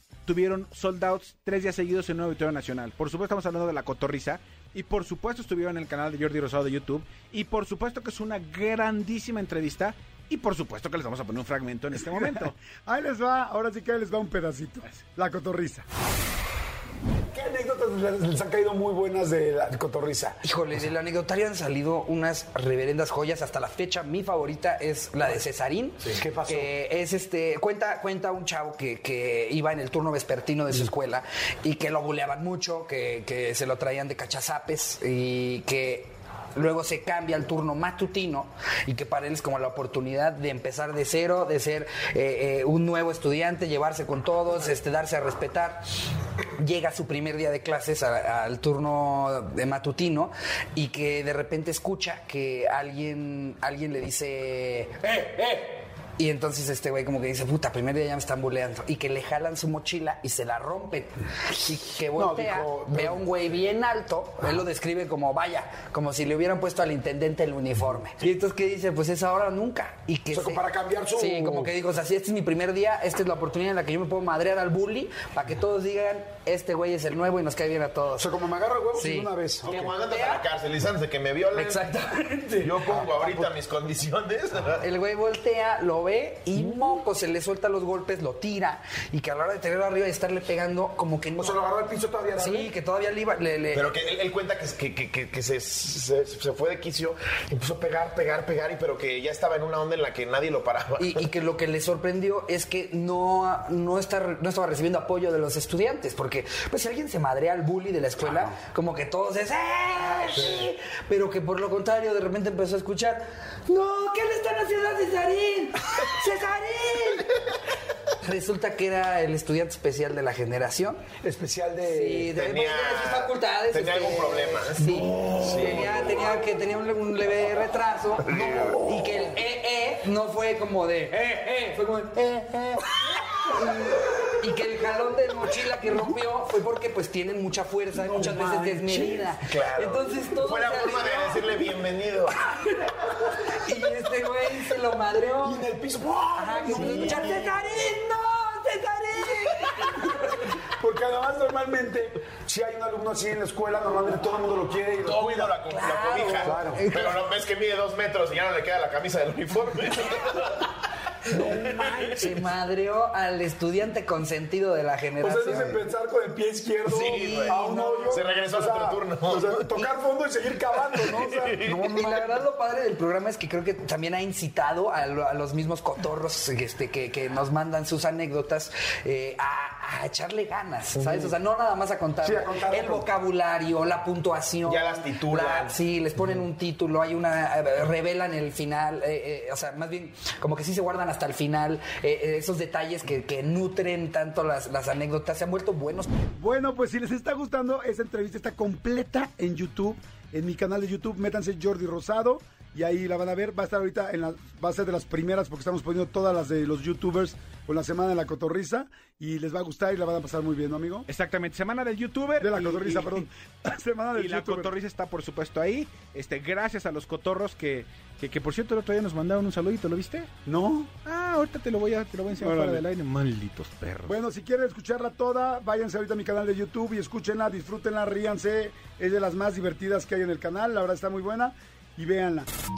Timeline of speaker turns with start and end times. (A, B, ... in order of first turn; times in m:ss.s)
0:00.3-0:12.6 A
0:12.0-0:15.8 B
0:17.3-0:20.4 B
0:20.4-0:45.8 C
0:26.1-0:26.7 B
0:46.6-1:10.6 C
1:02.2-1:03.2 B
1:10.3-1:11.7 B
1:11.1-1:18.3 C
1:18.2-1:19.7 B
1:19.0-1:20.5 C
1:19.6-1:21.8 D
1:21.6-1:22.8 C
1:22.6-1:24.8 D
1:22.8-1:23.5 B
1:24.8-1:31.6 C
1:31.4-1:32.7 B
1:32.4-1:33.9 C
1:33.7-1:41.2 D
1:41.0-1:57.3 C
1:58.2-2:01.0 C
2:01.2-2:02.3 B
2:01.9-2:21.6 C
2:02.3-2:06.0 D
2:08.3-2:09.3 B
2:08.3-2:08.8 D
2:17.9-2:19.3 B
2:19.5-2:22.4 D
2:22.4-2:25.7 C
2:25.4-2:27.6 B
2:26.4-2:30.4 C
2:26.7-2:27.3 D
2:30.6-2:35.6 B
2:35.0-2:40.7 D
2:35.7-2:37.2 C
2:36.4-2:36.8 B
2:41.3-2:42.3 B
2:41.8-2:42.1 D
2:42.0-2:45.8 C
2:45.2-2:51.6 B
2:46.9-2:49.6 D
2:47.1-2:48.2 C
2:50.9-2:52.2 D
2:51.0-3:16.1 C
3:02.2-3:03.1 B
3:04.7-3:05.7 D
3:16.4-3:31.1 B
3:31.1-3:33.3 A
3:32.4-3:34.7 B
3:34.1-3:40.3 A
3:40.5-3:40.9 B
3:41.0-3:44.2 A
3:42.3-3:42.8 B
3:44.1-3:52.5 B